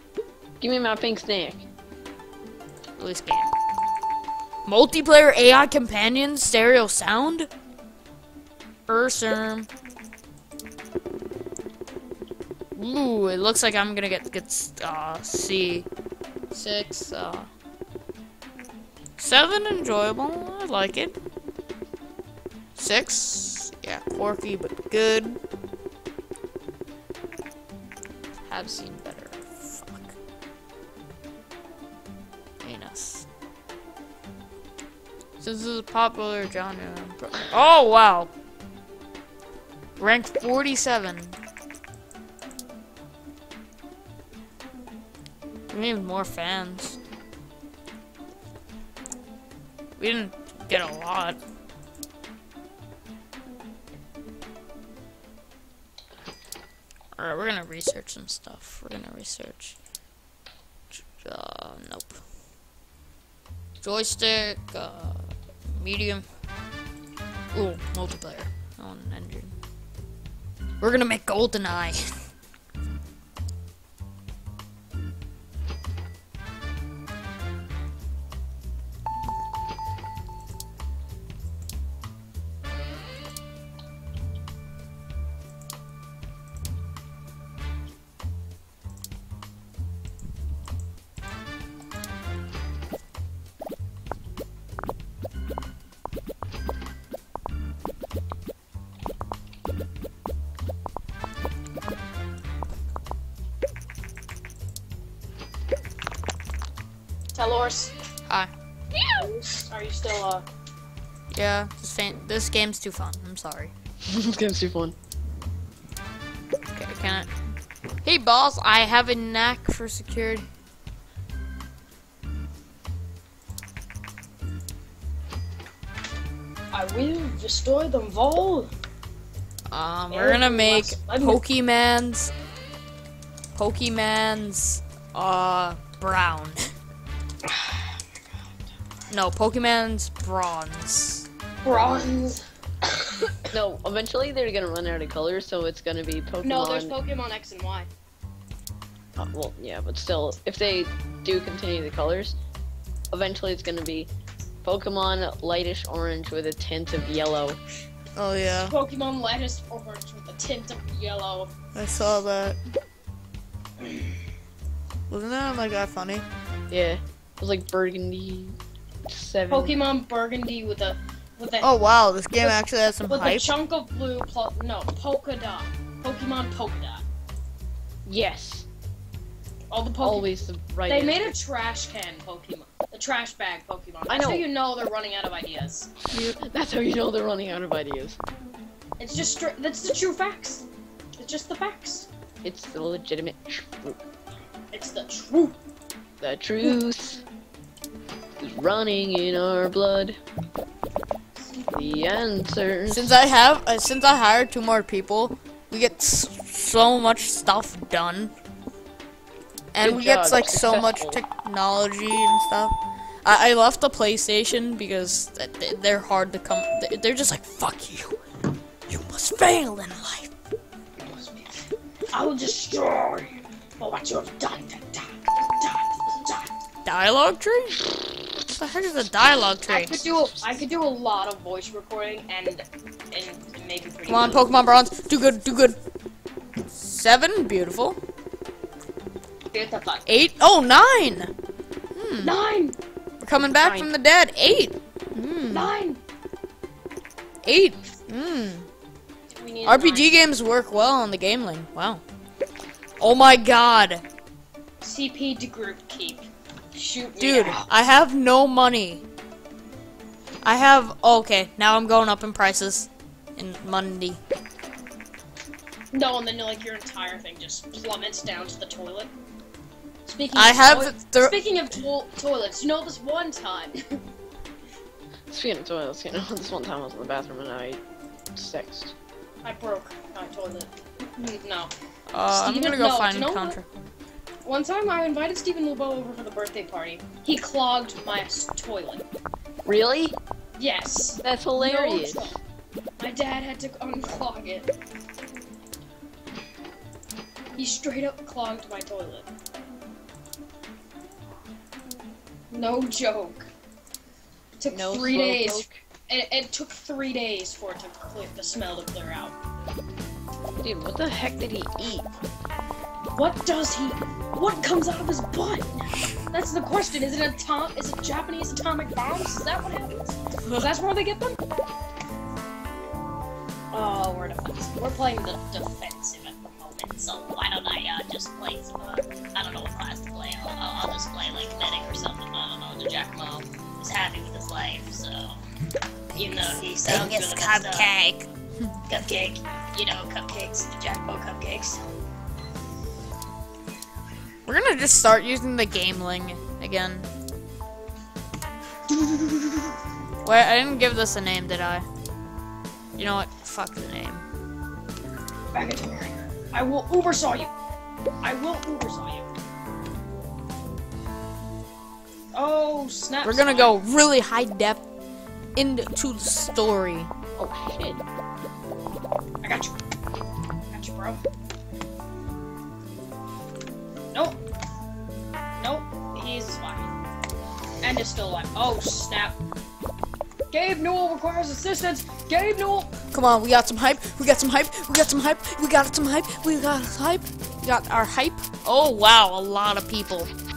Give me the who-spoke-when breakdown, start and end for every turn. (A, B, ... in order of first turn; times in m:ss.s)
0:00.6-0:01.7 A
0:03.0-0:03.5 B
0:04.6-0:07.5 B
0:08.9-0:09.7 B
0:12.8-0:15.9 B
0:16.5-0:17.5 B
0:19.2-0:21.2 B
0:22.8-0:25.4 B
0:28.5-0:30.2 B
0:32.6-0:33.3 B
0:35.4-0:38.3 B
0:40.0-0:41.4 B
0:45.7-0:47.0 B
0:50.0-0:51.4 B
0:57.2-0:59.8 B
1:00.9-1:02.2 B
1:03.8-1:06.3 B
1:07.5-1:09.6 B
1:10.8-1:12.1 B
1:47.3-1:47.9 C
1:49.2-1:50.4 C
1:51.3-1:53.7 B
1:54.1-1:55.0 A
1:56.7-1:57.3 B
1:58.0-2:00.5 B
2:06.7-2:08.7 C
2:09.7-2:12.3 B
2:10.1-2:11.4 C
2:13.6-2:16.7 B
2:17.5-2:18.0 C
2:19.1-2:21.3 B
2:21.6-2:23.3 C
2:23.5-2:27.0 A
2:26.4-2:27.9 C
2:29.2-2:32.4 A
2:33.1-2:34.1 A
2:34.6-2:37.6 A
2:38.2-2:38.8 B
2:38.5-2:41.5 C
2:41.8-2:42.6 B
2:45.1-2:46.3 B
2:46.7-2:48.6 A
2:49.1-2:49.8 A
2:49.5-2:51.8 C
2:51.6-2:53.5 B
2:52.4-2:57.0 C
2:58.1-2:58.7 A
2:59.7-3:00.4 C
3:00.0-3:01.3 A
3:00.9-3:06.3 C
3:04.1-3:04.5 A
3:06.1-3:08.2 A
3:09.0-3:10.6 C
3:11.2-3:12.1 C
3:12.4-3:14.0 A
3:14.7-3:15.6 C
3:16.2-3:17.2 A
3:18.4-3:20.2 A
3:21.4-3:22.1 C
3:21.7-3:23.2 A
3:22.9-3:28.3 B
3:29.7-3:38.2 B
3:29.8-3:31.2 A
3:38.9-3:40.3 B
3:41.0-3:46.5 C
3:46.9-3:50.1 B
3:49.7-3:54.5 C
3:54.1-3:55.8 B
3:56.7-3:58.0 B
3:59.5-4:00.0 C
4:00.1-4:01.3 B
4:02.0-4:02.3 B
4:02.2-4:02.8 C
4:03.2-4:05.7 B
4:05.5-4:06.0 C
4:07.4-4:08.7 B
4:09.3-4:10.2 C
4:09.6-4:12.0 B
4:13.0-4:14.0 B
4:14.8-4:17.7 C
4:17.2-4:19.0 B
4:20.4-4:24.2 B
4:25.9-4:29.1 C
4:30.1-4:34.0 C
4:30.4-4:31.4 B
4:35.3-4:37.8 A
4:38.4-4:38.9 A
4:39.4-4:41.7 C
4:42.1-4:43.7 B
4:42.3-4:43.6 C
4:44.4-4:49.0 C
4:49.7-4:50.2 A
4:50.6-4:52.4 C
4:51.2-4:52.4 A
4:53.0-4:54.7 C
4:57.6-4:59.3 C
5:02.5-5:03.5 C
5:04.6-5:09.4 C
5:04.7-5:05.8 A
5:10.6-5:12.1 A
5:13.1-5:21.4 C
5:23.7-5:35.4 C
5:36.1-5:38.8 B
5:36.2-5:37.9 C
5:38.9-5:41.9 C
5:44.5-5:47.1 B
5:50.2-5:51.9 B
5:53.0-5:54.3 B
5:55.5-5:57.5 C
5:58.2-5:59.3 C
6:02.3-6:03.8 C
6:03.2-6:04.8 B
6:05.6-6:07.1 B
6:07.4-6:08.0 A
6:09.4-6:09.8 C
6:10.7-6:11.2 C
6:14.1-6:14.4 C
6:15.6-6:16.9 C
6:17.8-6:19.4 C
6:20.5-6:22.9 C
6:23.1-6:30.3 B